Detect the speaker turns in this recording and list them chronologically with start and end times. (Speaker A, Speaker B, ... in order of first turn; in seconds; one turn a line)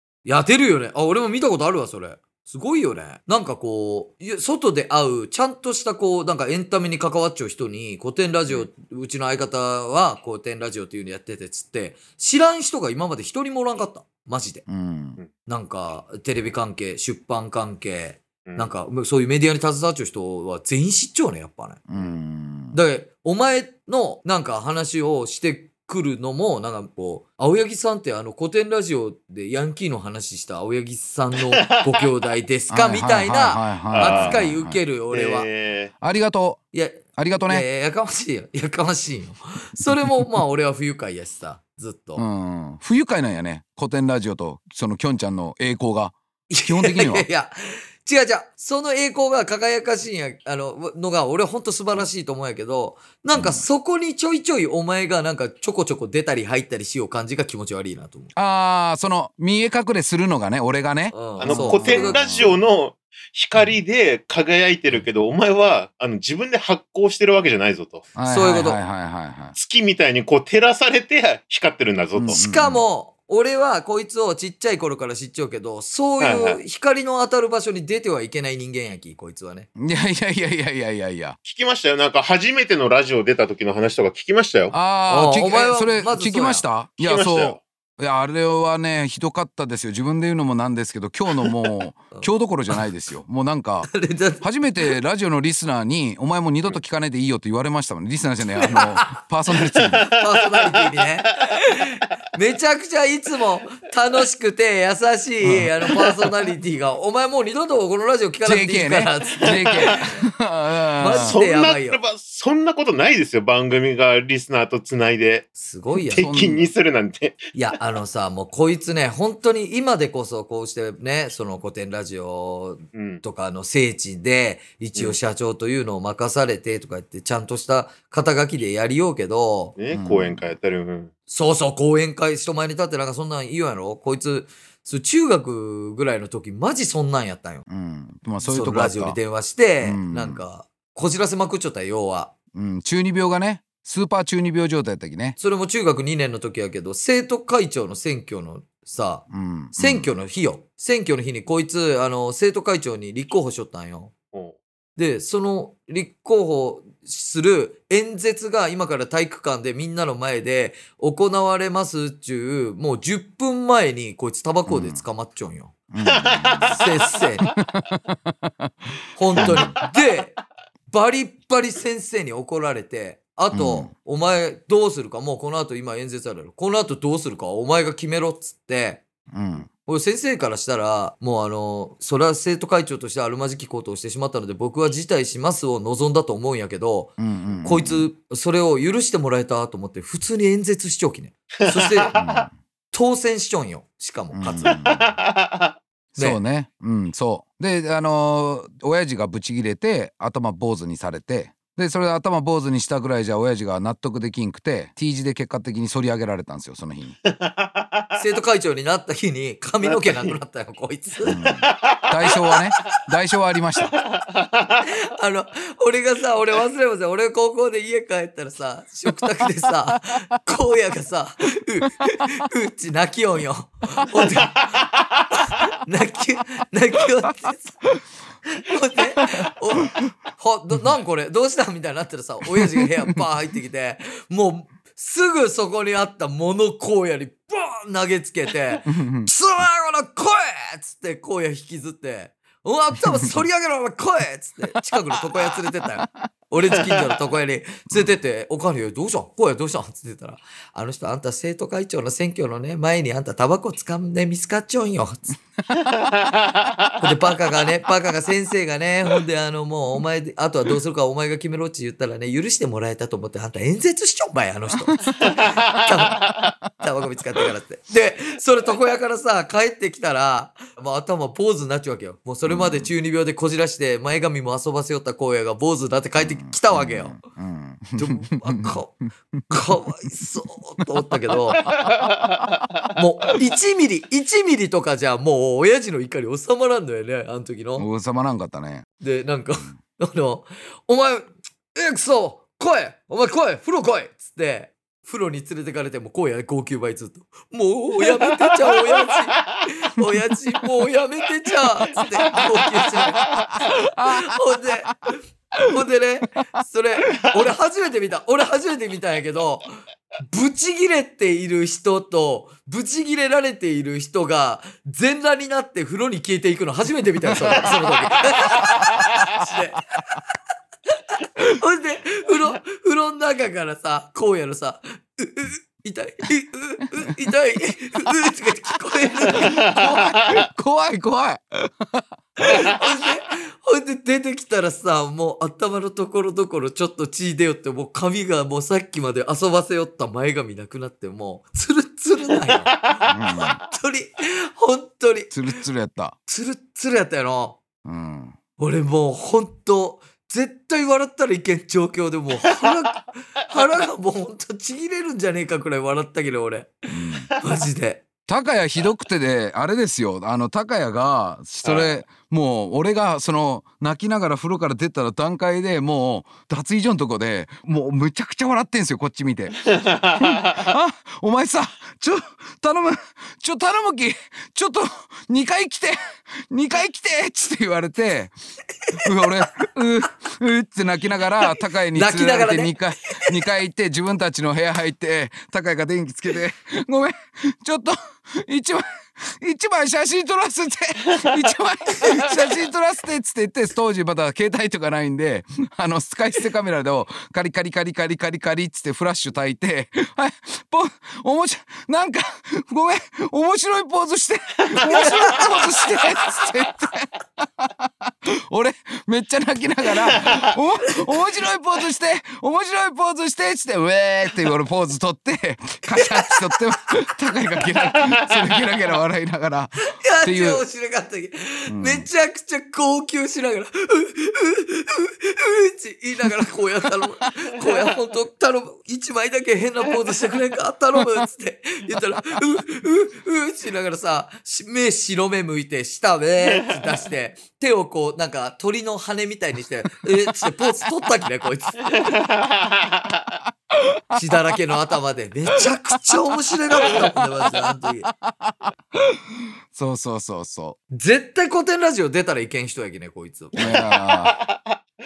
Speaker A: 0.2-14.7
Speaker B: 14.7-15.2
Speaker A: 15.5-21.8
Speaker C: 18.5-18.7
Speaker B: 21.9-22.8
Speaker A: 22.7-35.5
Speaker C: 31.6-32.0
Speaker B: 32.7-34.8
Speaker C: 33.9-34.5
Speaker C: 35.1-35.9
Speaker B: 36.0-36.6
Speaker A: 36.7-42.2
Speaker B: 37.2-37.7
Speaker B: 42.2-47.3
Speaker A: 46.5-58.3
Speaker B: 53.4-53.6
Speaker B: 58.4-62.6
Speaker A: 61.1-62.5
Speaker C: 61.4-68.1
Speaker B: 68.2-69.6
Speaker A: 68.3-68.8
Speaker C: 69.5-72.4
Speaker B: 72.2-72.8
Speaker A: 72.3-79.7
Speaker C: 76.2-76.6
Speaker B: 79.8-81.4
Speaker C: 81.4-84.8
Speaker B: 84.7-100.1
Speaker A: 85.1-86.6
Speaker C: 87.0-87.6
Speaker A: 93.9-94.4
Speaker A: 98.6-99.2
Speaker A: 100.0-110.2
Speaker B: 105.4-105.7
Speaker B: 108.5-111.4
Speaker C: 109.4-110.0
Speaker A: 111.0-112.0
Speaker C: 111.1-117.5
Speaker A: 115.6-116.3
Speaker B: 116.2-116.7
Speaker A: 117.5-129.8
Speaker C: 123.0-123.2
Speaker C: 129.8-131.1
Speaker B: 129.9-130.5
Speaker A: 131.3-137.7
Speaker B: 137.7-139.2
Speaker A: 138.4-142.3
Speaker B: 139.8-140.4
Speaker B: 142.5-145.4
Speaker A: 145.4-154.1
Speaker B: 149.3-150.1
Speaker A: 155.0-165.7
Speaker B: 164.7-165.0
Speaker B: 165.9-166.8
Speaker C: 166.0-166.9
Speaker A: 166.7-167.6
Speaker B: 167.6-168.7
Speaker A: 169.2-170.3
Speaker B: 169.4-169.8
Speaker C: 169.4-169.9
Speaker A: 170.9-179.0
Speaker B: 173.5-173.9
Speaker B: 179.3-179.7
Speaker A: 179.9-192.2
Speaker B: 187.2-188.1
Speaker C: 191.6-192.4
Speaker B: 192.2-192.5
Speaker A: 192.9-195.0
Speaker B: 194.3-195.2
Speaker C: 194.6-195.8
Speaker B: 196.2-207.2
Speaker C: 207.3-208.2
Speaker A: 208.2-211.6
Speaker C: 209.8-210.3
Speaker B: 211.3-214.0
Speaker C: 211.7-212.3
Speaker A: 212.3-212.9
Speaker C: 214.0-214.8
Speaker A: 214.8-227.8
Speaker A: 228.5-255.4
Speaker B: 232.6-233.2
Speaker B: 238.9-239.3
Speaker B: 245.4-246.3
Speaker B: 255.6-256.1
Speaker C: 255.8-256.6
Speaker A: 257.0-277.2
Speaker B: 264.8-265.9
Speaker B: 272.5-272.9
Speaker B: 276.2-278.8
Speaker A: 278.0-279.0
Speaker B: 279.4-280.1
Speaker A: 279.5-281.7
Speaker B: 281.6-282.9
Speaker C: 281.6-282.4
Speaker A: 282.9-287.9
Speaker B: 287.8-288.9
Speaker A: 289.0-320.0
Speaker B: 303.3-304.4
Speaker B: 317.3-317.8
Speaker B: 318.6-319.2
Speaker A: 321.1-330.0
Speaker B: 329.3-332.8
Speaker C: 329.7-330.3
Speaker A: 332.4-345.6
Speaker B: 343.1-343.6
Speaker B: 345.3-346.2
Speaker A: 346.3-347.6
Speaker B: 347.9-348.4
Speaker A: 348.6-358.0
Speaker B: 356.9-357.3
Speaker B: 358.3-378.3
Speaker C: 361.6-361.9
Speaker C: 369.9-370.6
Speaker B: 378.9-420.6
Speaker A: 381.9-383.4
Speaker A: 404.9-405.6
Speaker A: 410.9-411.2
Speaker A: 415.9-416.6
Speaker A: 419.9-442.2
Speaker B: 421.7-422.1
Speaker B: 440.3-440.7
Speaker C: 442.0-443.2
Speaker A: 444.1-448.1
Speaker B: 446.8-450.8
Speaker A: 450.9-453.9
Speaker B: 453.6-454.4
Speaker C: 454.0-454.6